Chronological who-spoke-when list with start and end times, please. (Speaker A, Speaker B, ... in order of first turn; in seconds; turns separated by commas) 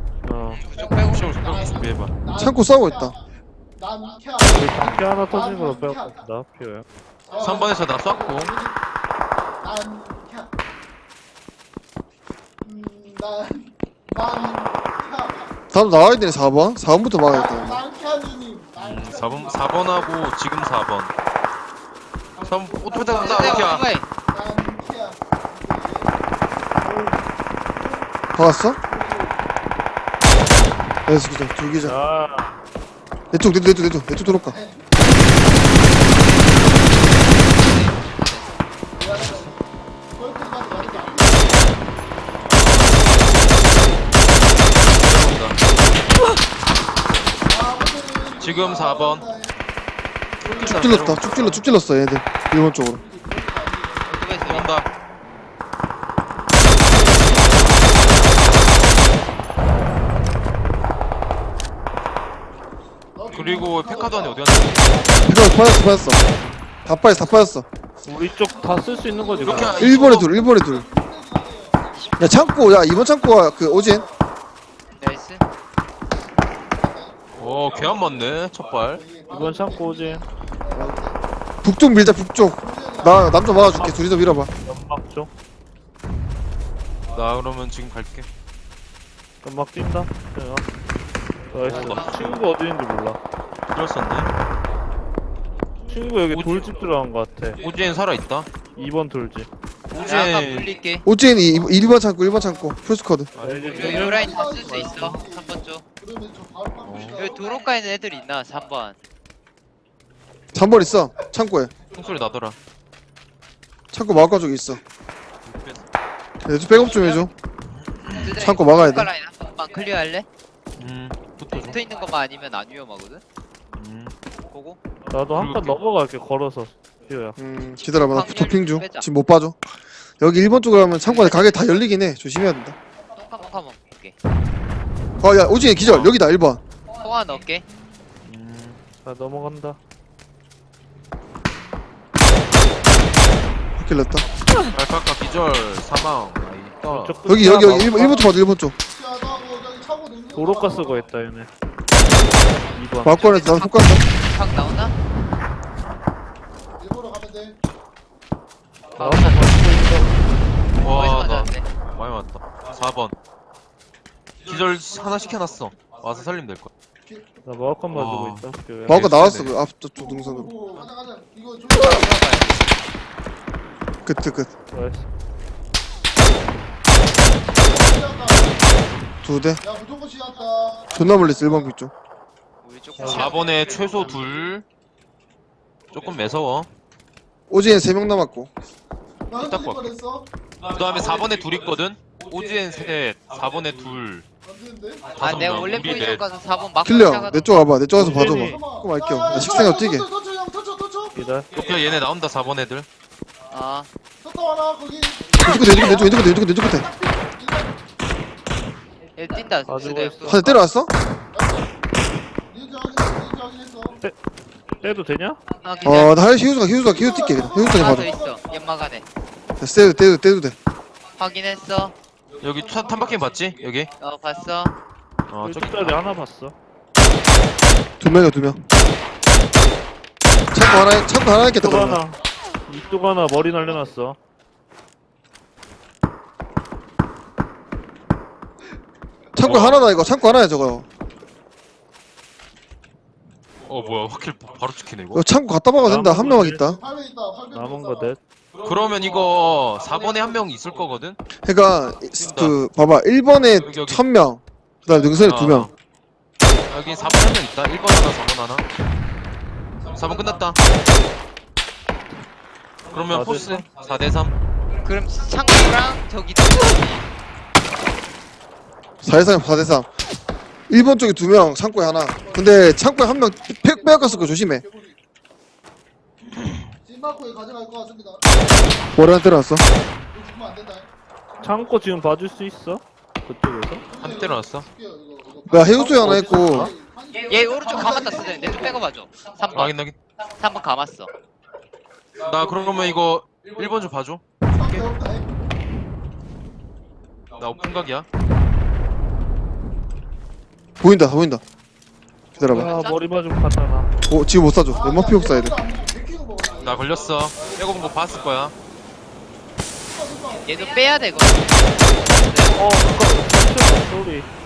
Speaker A: 0.2-0.6, Speaker B: 0.5-1.8, Speaker C: 0.6-2.1, Speaker D: 1.7-3.2, Speaker E: 2.3-3.1, Speaker D: 3.8-6.2, Speaker A: 4.5-6.8, Speaker D: 7.3-8.8, Speaker C: 7.3-8.5, Speaker D: 9.6-10.5, Speaker D: 12.6-15.5, Speaker E: 15.7-17.8, Speaker D: 17.3-20.2, Speaker C: 18.8-21.1, Speaker C: 22.4-23.9, Speaker D: 22.8-26.1, Speaker B: 23.0-24.1, Speaker D: 26.8-27.2, Speaker E: 28.3-28.8, Speaker D: 28.9-29.4, Speaker E: 31.1-32.0, Speaker A: 31.8-32.6, Speaker E: 33.3-34.5, Speaker D: 34.5-34.9, Speaker B: 36.0-38.5, Speaker D: 39.0-39.6, Speaker C: 39.2-39.5, Speaker D: 40.1-41.6, Speaker C: 44.6-45.6, Speaker D: 47.5-49.6, Speaker C: 48.4-49.3, Speaker C: 50.4-51.6, Speaker D: 50.5-51.1, Speaker E: 50.5-53.0, Speaker D: 53.0-54.6, Speaker B: 54.1-54.8, Speaker C: 54.4-54.9, Speaker D: 56.6-58.6, Speaker D: 63.1-65.3, Speaker C: 63.3-65.2, Speaker E: 65.2-66.2, Speaker E: 66.8-67.7, Speaker A: 68.0-69.8, Speaker D: 68.5-72.2, Speaker C: 69.4-70.3, Speaker E: 69.7-70.8, Speaker E: 72.2-74.0, Speaker D: 73.5-74.2, Speaker B: 75.0-75.5, Speaker D: 76.7-77.2, Speaker C: 77.3-79.0, Speaker D: 79.0-81.2, Speaker A: 79.3-80.2, Speaker E: 81.6-84.5, Speaker D: 82.7-83.4, Speaker A: 84.6-85.3, Speaker C: 87.1-88.3, Speaker A: 89.4-90.7, Speaker A: 91.5-93.2, Speaker C: 91.6-92.4, Speaker C: 93.7-94.3, Speaker A: 95.8-97.6, Speaker C: 96.3-96.7, Speaker C: 97.6-98.5, Speaker A: 98.7-99.5, Speaker B: 99.9-101.0, Speaker C: 99.9-100.7, Speaker E: 101.0-103.3, Speaker D: 102.4-102.7, Speaker C: 103.3-104.0, Speaker A: 103.4-104.7, Speaker B: 103.7-105.8, Speaker D: 103.7-107.5, Speaker C: 106.8-107.2, Speaker B: 107.1-109.0, Speaker E: 110.5-111.7, Speaker C: 111.9-112.5, Speaker E: 113.9-114.8, Speaker C: 115.4-115.9, Speaker E: 116.4-117.3, Speaker C: 117.9-118.3, Speaker B: 118.2-120.2, Speaker E: 118.4-119.1, Speaker C: 120.8-121.8, Speaker B: 121.6-123.2, Speaker C: 123.8-124.1, Speaker B: 124.5-124.8, Speaker A: 125.1-127.4, Speaker C: 125.3-125.8, Speaker E: 127.4-132.7, Speaker B: 128.0-129.1, Speaker B: 131.0-131.6, Speaker B: 133.2-134.1, Speaker E: 135.2-136.6, Speaker C: 135.8-136.2, Speaker B: 137.0-137.7, Speaker C: 138.2-138.8, Speaker A: 139.0-139.8, Speaker E: 143.8-144.2, Speaker C: 144.6-147.8, Speaker A: 146.8-148.4, Speaker E: 147.2-148.7, Speaker D: 148.9-151.0, Speaker A: 150.3-151.5, Speaker A: 152.6-153.4, Speaker E: 153.0-154.0, Speaker B: 153.1-154.9, Speaker D: 156.8-157.6, Speaker B: 158.9-159.6, Speaker A: 159.0-160.2, Speaker C: 160.8-163.1, Speaker B: 160.8-161.7, Speaker C: 164.4-166.7, Speaker A: 167.4-169.0, Speaker C: 167.9-169.5, Speaker E: 168.8-170.5, Speaker D: 170.0-172.4, Speaker B: 171.7-172.6, Speaker E: 174.0-174.5, Speaker A: 174.7-175.1, Speaker D: 177.5-179.0, Speaker E: 179.2-179.6, Speaker D: 179.6-181.7, Speaker E: 180.9-181.9, Speaker B: 182.6-184.2, Speaker A: 183.0-183.4, Speaker C: 183.0-184.6, Speaker C: 185.9-186.7, Speaker E: 187.5-188.5, Speaker D: 189.3-190.3, Speaker C: 189.3-189.9, Speaker C: 190.7-194.2, Speaker D: 194.4-195.2, Speaker C: 195.1-196.2, Speaker B: 195.2-197.5, Speaker E: 196.8-200.0, Speaker A: 197.9-198.6, Speaker D: 198.1-201.1, Speaker A: 201.1-201.5, Speaker C: 201.5-202.8, Speaker B: 203.5-203.9, Speaker D: 204.2-207.7, Speaker E: 205.4-206.9, Speaker B: 209.2-210.6, Speaker A: 209.7-210.4, Speaker E: 210.2-210.9, Speaker D: 211.3-211.7, Speaker D: 212.5-214.0, Speaker A: 214.8-215.4, Speaker B: 215.6-216.1, Speaker E: 215.8-218.1, Speaker D: 216.8-218.4, Speaker B: 217.6-219.0, Speaker E: 219.6-220.6, Speaker B: 221.2-221.9, Speaker C: 222.4-223.9, Speaker B: 224.0-224.7, Speaker C: 225.3-226.0, Speaker A: 225.4-226.5, Speaker E: 228.0-228.6, Speaker E: 230.5-232.0, Speaker A: 231.5-234.2, Speaker E: 239.3-240.8, Speaker C: 239.4-240.0, Speaker C: 243.6-245.2, Speaker E: 245.1-246.8, Speaker A: 245.8-246.7, Speaker D: 246.8-248.1, Speaker A: 247.5-248.2, Speaker C: 248.6-251.2, Speaker E: 251.4-255.7, Speaker C: 252.1-252.6, Speaker C: 253.6-254.0, Speaker C: 255.2-255.7, Speaker C: 256.7-258.6, Speaker C: 259.9-260.6, Speaker C: 262.9-264.3, Speaker A: 263.1-263.6, Speaker B: 264.8-267.0, Speaker E: 269.0-269.9, Speaker E: 270.7-274.6, Speaker D: 272.1-272.6, Speaker D: 273.6-274.9, Speaker D: 276.9-278.3, Speaker E: 278.9-279.6, Speaker D: 280.0-280.9, Speaker A: 281.4-283.8, Speaker D: 283.9-288.8, Speaker C: 284.0-284.7, Speaker E: 285.5-286.7, Speaker A: 285.7-286.7, Speaker B: 287.3-289.7, Speaker C: 289.5-289.9, Speaker B: 290.4-291.1, Speaker C: 292.2-294.8, Speaker D: 294.5-295.3, Speaker C: 297.4-298.1, Speaker E: 300.8-301.4, Speaker E: 302.4-302.7, Speaker A: 302.5-303.9, Speaker B: 302.5-303.0, Speaker E: 304.1-305.6, Speaker D: 304.7-308.0, Speaker C: 306.6-308.5, Speaker D: 309.9-313.0, Speaker B: 310.4-312.6, Speaker A: 312.5-314.3